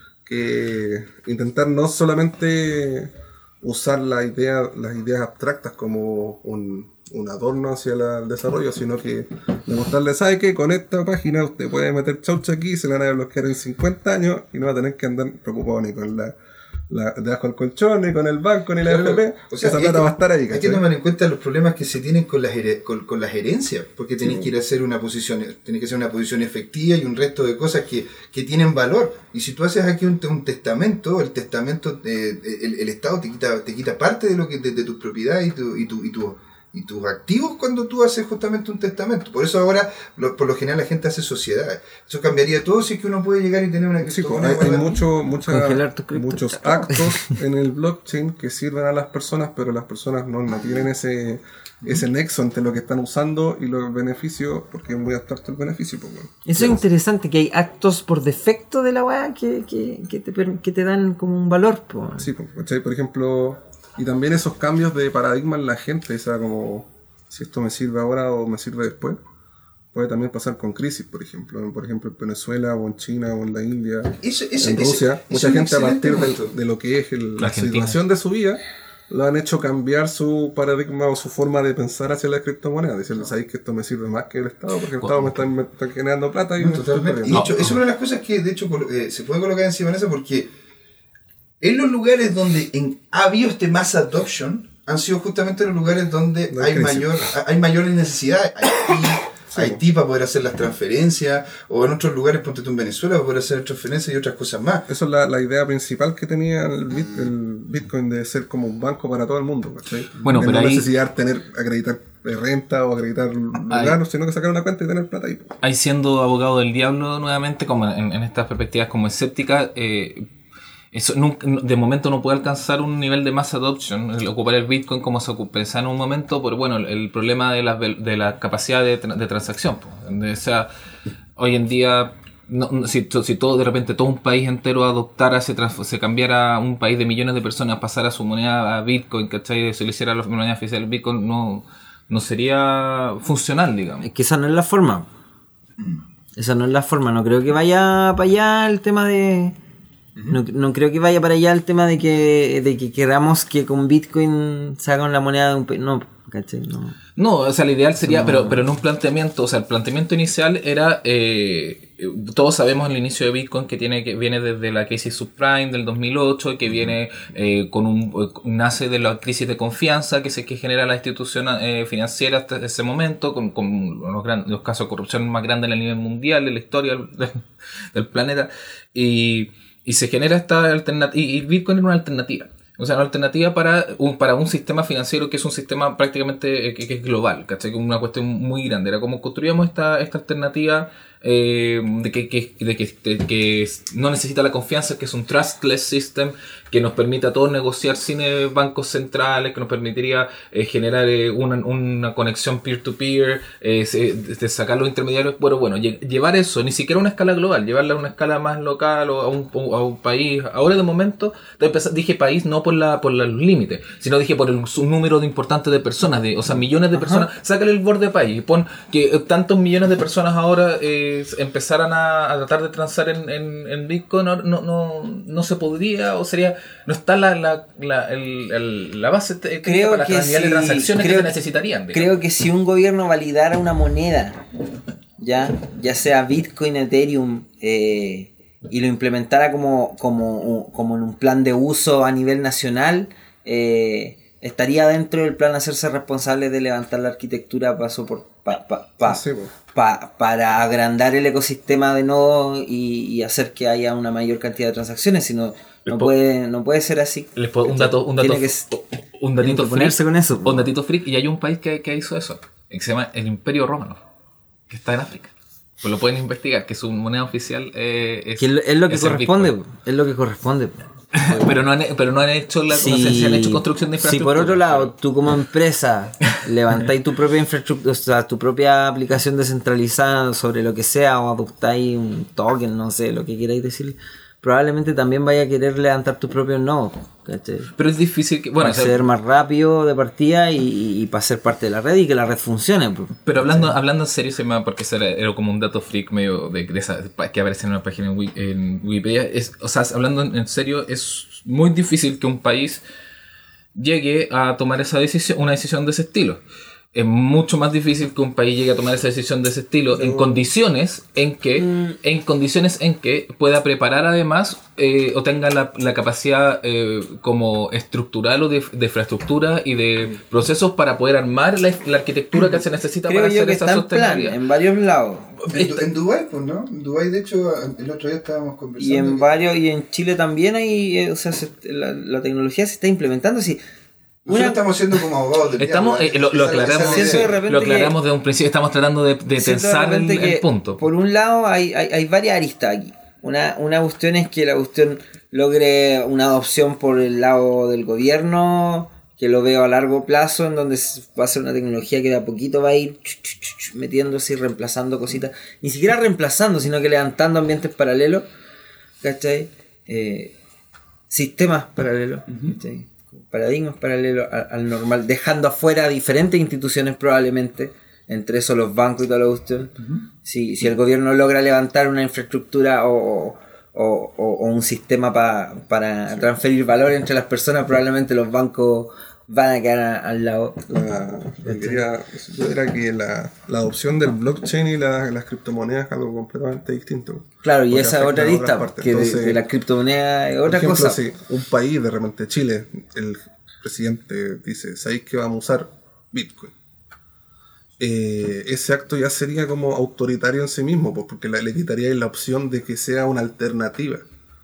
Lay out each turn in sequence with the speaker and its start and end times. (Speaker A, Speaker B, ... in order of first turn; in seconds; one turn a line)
Speaker A: 0.2-16.4
Speaker A: 16.9-20.8
Speaker B: 18.8-45.0
Speaker A: 24.2-24.5
Speaker A: 44.0-56.8
Speaker C: 45.5-47.4
Speaker C: 56.5-62.3
Speaker A: 62.2-69.2
Speaker A: 69.9-87.5
Speaker B: 74.2-76.5
Speaker D: 77.4-78.0
Speaker D: 85.0-85.4
Speaker B: 86.6-90.5
Speaker D: 87.3-87.8
Speaker B: 91.6-104.9
Speaker A: 96.5-97.3
Speaker A: 99.5-99.8
Speaker A: 104.9-115.5
Speaker D: 110.2-110.9
Speaker D: 113.7-114.0
Speaker D: 115.6-120.2
Speaker D: 120.9-130.7
Speaker D: 131.4-144.1
Speaker C: 144.0-145.1
Speaker C: 146.4-149.6
Speaker C: 150.3-156.9
Speaker D: 157.2-232.2
Speaker C: 158.0-158.6
Speaker B: 216.9-217.3
Speaker C: 229.6-231.4
Speaker C: 231.9-234.4
Speaker C: 235.2-249.2
Speaker A: 249.0-249.5
Speaker C: 249.7-258.6
Speaker D: 255.9-256.1
Speaker D: 257.4-264.0
Speaker C: 259.4-260.7
Speaker D: 264.7-265.3
Speaker D: 265.8-269.5
Speaker C: 268.4-270.8
Speaker D: 271.1-274.9
Speaker C: 272.7-287.7
Speaker D: 287.8-289.1
Speaker C: 288.6-293.7
Speaker D: 293.2-302.8
Speaker D: 303.8-306.4
Speaker D: 306.9-324.4
Speaker A: 309.9-310.4
Speaker C: 311.6-311.9
Speaker C: 323.1-325.3
Speaker D: 325.4-325.8
Speaker B: 325.5-329.3
Speaker C: 328.8-333.6
Speaker B: 334.2-337.4
Speaker C: 334.3-334.6
Speaker D: 335.6-340.8
Speaker C: 336.5-337.9
Speaker C: 339.4-358.2
Speaker C: 359.0-360.3
Speaker C: 361.1-380.7
Speaker A: 380.7-389.4
Speaker C: 381.4-381.8
Speaker C: 387.4-391.0
Speaker A: 390.5-396.5
Speaker A: 397.8-404.0